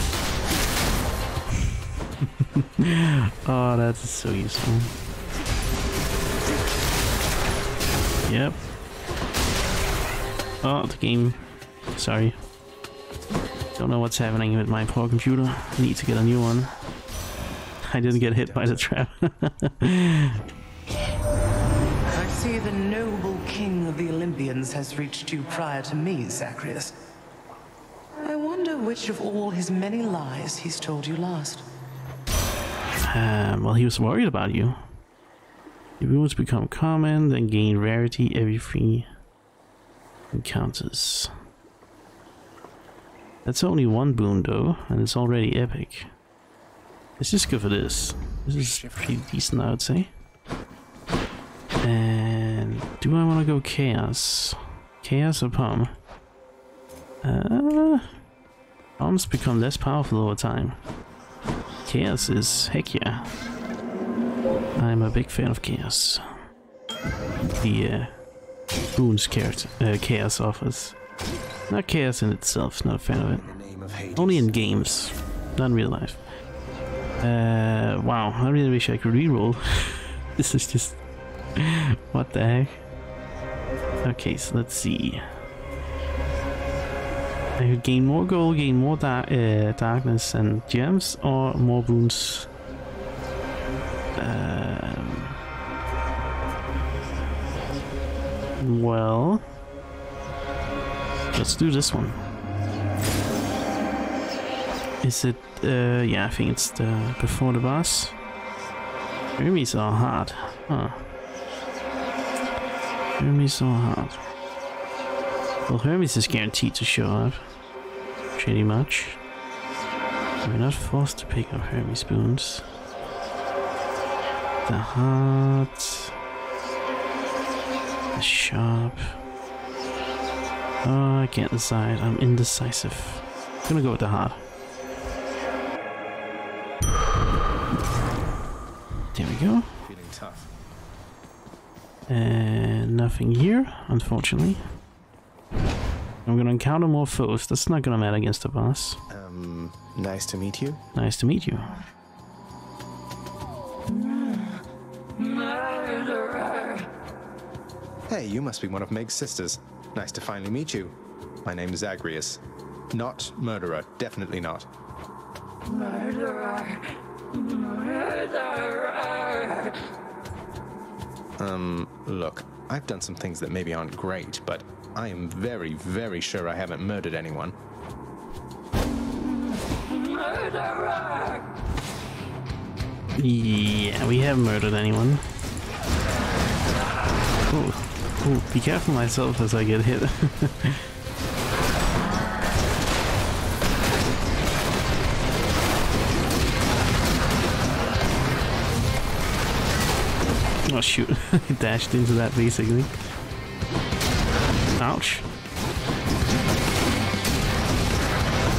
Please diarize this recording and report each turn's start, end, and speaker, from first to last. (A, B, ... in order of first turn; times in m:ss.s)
0:02.2-0:04.9 A
0:08.3-0:08.6 A
0:10.6-0:11.4 A
0:11.9-0:12.4 A
0:13.8-0:16.7 A
0:17.9-0:20.4 A
0:18.1-0:18.9 B
0:22.1-0:27.0 C
0:28.2-0:31.6 C
0:33.0-0:34.8 A
0:36.0-0:39.1 A
0:40.3-0:41.3 A
0:43.4-0:46.1 A
0:47.2-0:50.1 A
0:48.5-0:49.2 B
0:51.8-0:55.9 A
0:57.2-0:58.1 A
0:59.0-1:00.8 A
1:01.9-1:03.3 A
1:04.8-1:06.2 A
1:07.6-1:08.2 A
1:09.0-1:11.0 A
1:11.7-1:13.6 A
1:13.2-1:14.6 B
1:14.2-1:16.2 A
1:17.2-1:21.0 A
1:21.6-1:22.8 A
1:24.0-1:25.2 A
1:27.6-1:32.5 A
1:34.2-1:35.4 A
1:38.6-1:39.4 A
1:41.3-1:42.2 A
1:45.0-1:48.2 A
1:49.4-1:51.1 A
1:53.2-1:54.2 A
1:55.7-1:57.4 A
1:58.4-1:59.2 A
2:00.4-2:02.6 A
2:04.7-2:06.1 A
2:08.2-2:09.2 A
2:10.8-2:14.4 A
2:19.1-2:19.7 A
2:19.8-2:20.5 B
2:22.1-2:24.6 A
2:26.3-2:29.0 A
2:29.1-2:30.8 B
2:31.0-2:31.7 A
2:38.1-2:44.7 B
2:51.4-2:57.6 B
3:03.2-3:05.2 A
3:07.5-3:10.8 A
3:20.7-3:23.0 A
3:24.8-3:25.3 A